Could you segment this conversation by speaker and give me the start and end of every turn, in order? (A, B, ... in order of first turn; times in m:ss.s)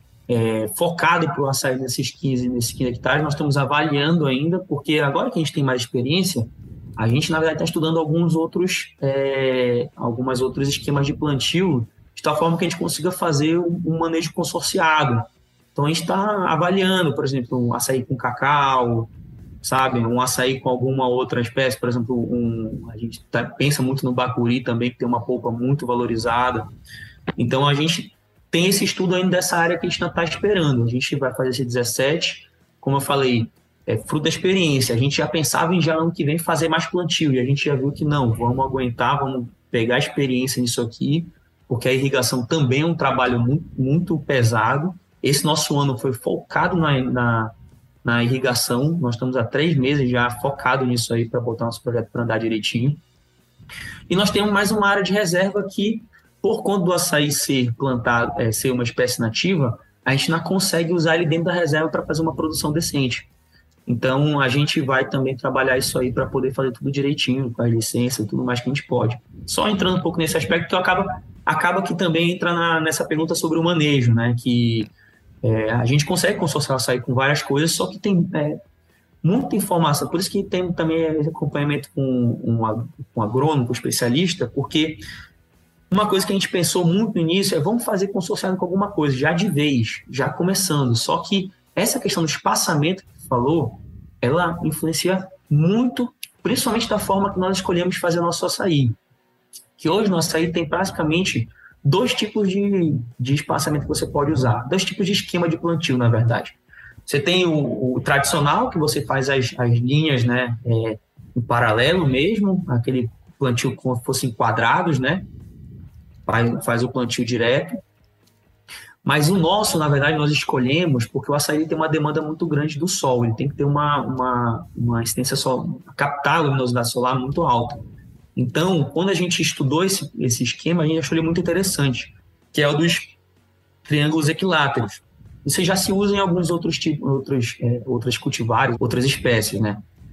0:00.3-0:26.7 A
0:27.4-0:47.5 A
0:48.0-0:53.0 A
0:54.1-1:03.3 A
1:03.9-1:14.9 A
1:15.4-1:18.6 A
1:19.2-1:25.0 A
1:25.9-1:39.0 A
1:39.8-1:55.3 A
1:56.3-1:57.8 A
1:59.0-2:07.8 A
2:08.4-2:13.2 A
2:13.8-2:19.8 A